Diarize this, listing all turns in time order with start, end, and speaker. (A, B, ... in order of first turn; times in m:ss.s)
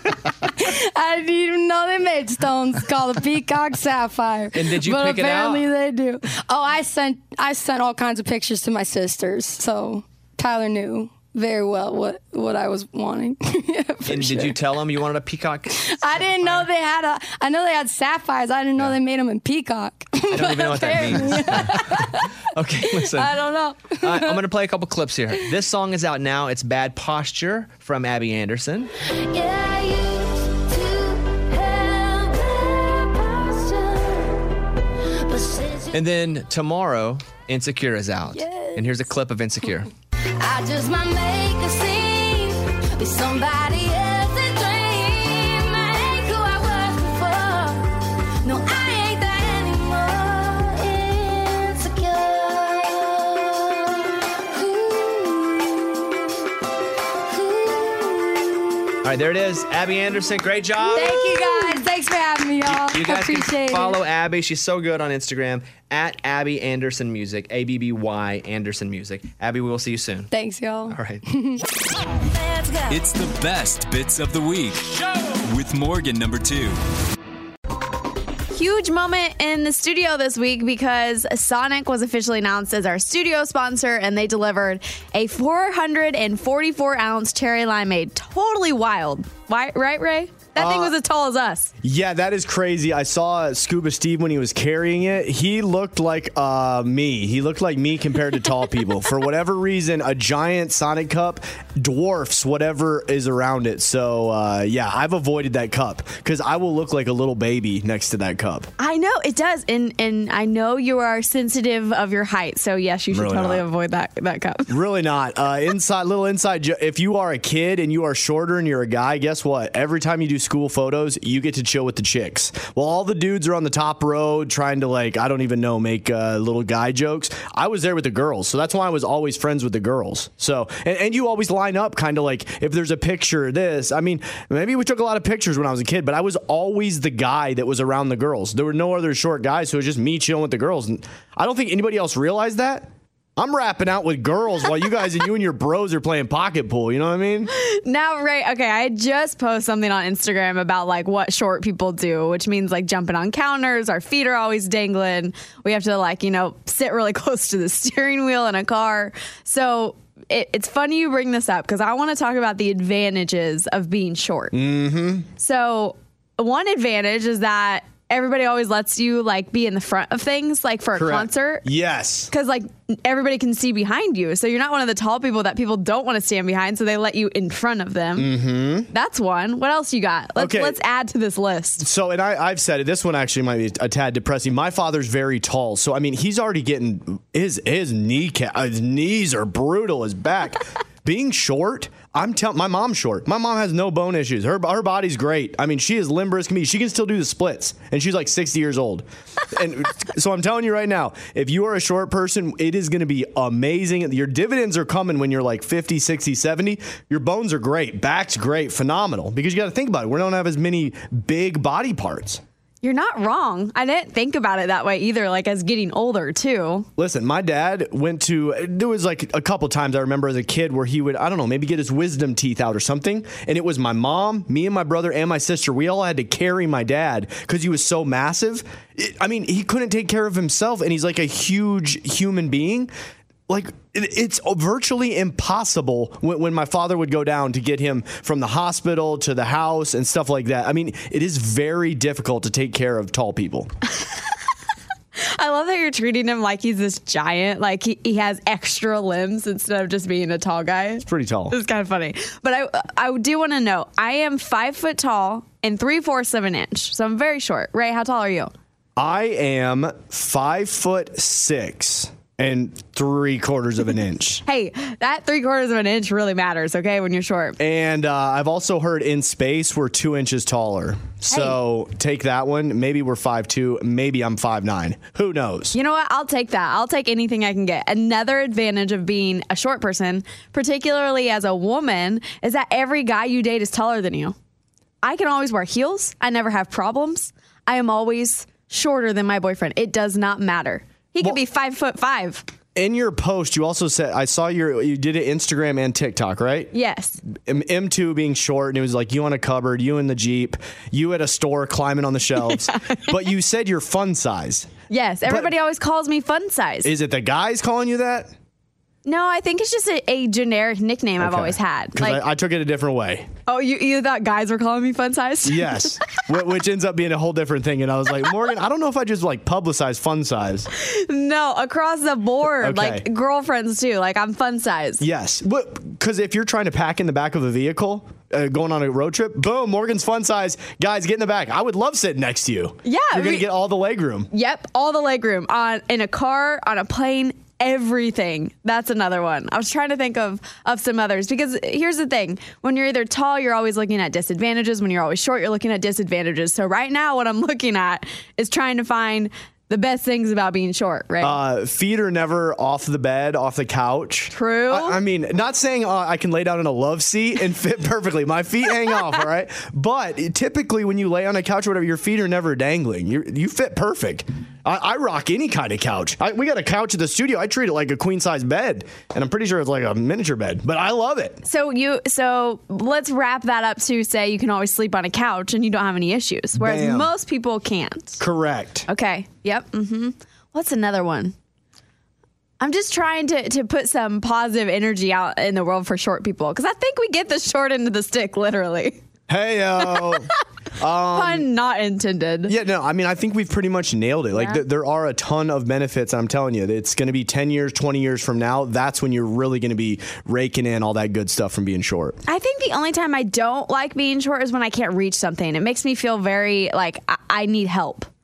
0:00.4-0:14.6 A
0:04.5-0:05.6 B
0:14.1-0:16.7 B
0:15.8-0:22.3 A
0:20.3-0:23.4 B
0:23.0-0:24.4 A
0:24.0-0:28.9 B
0:29.2-0:34.4 A
0:35.2-0:36.0 A
0:35.9-0:39.9 B
0:38.3-0:38.9 A
0:40.4-0:56.2 A
0:57.3-0:58.5 A
0:59.0-1:01.8 B
1:00.8-1:04.0 A
1:02.6-1:10.3 B
1:10.3-1:11.6 A
1:10.9-1:11.2 B
1:12.8-1:16.8 C
1:18.5-1:31.7 D
1:30.6-1:30.9 E
1:31.8-1:48.7 E
1:48.8-1:54.7 D
1:53.1-1:53.6 E
1:54.7-2:27.5 E
2:27.5-2:44.5 D
2:44.5-2:45.3 E
2:45.4-2:51.6 D
2:50.9-2:52.3 E
2:52.3-2:58.3 D
2:58.2-2:58.9 E
2:58.9-3:01.8 D
3:00.4-3:00.8 E
3:01.8-3:32.4 E
3:32.8-3:36.9 D
3:37.0-3:52.9 E
3:53.5-4:03.7 E
4:05.2-4:18.5 D
4:11.0-4:11.5 E
4:19.0-4:24.4 E
4:24.4-4:27.6 D
4:27.6-4:35.7 E
4:35.7-4:44.3 D
4:45.0-4:52.4 D
4:52.7-4:56.7 E
4:56.7-4:57.2 D
4:57.3-5:04.7 E
5:02.7-5:03.1 D
5:04.9-5:06.9 D
5:05.2-5:05.5 E
5:06.8-5:08.3 E
5:09.0-5:12.2 D
5:11.2-5:13.3 E
5:13.5-5:16.0 D
5:15.4-5:20.7 E
5:20.8-5:25.0 D
5:22.6-5:23.0 E
5:25.0-5:34.3 E
5:32.8-5:33.5 D
5:34.3-5:51.4 D
5:51.2-6:11.4 E
5:54.3-5:55.0 D
6:11.4-6:18.2 D
6:16.6-6:17.1 E
6:18.2-6:18.9 E
6:18.9-6:21.3 D
6:22.6-6:29.0 D
6:29.3-6:31.5 E
6:29.9-6:30.1 D
6:31.1-6:32.5 D
6:32.5-6:42.2 E
6:34.3-6:34.6 D
6:42.2-6:48.1 D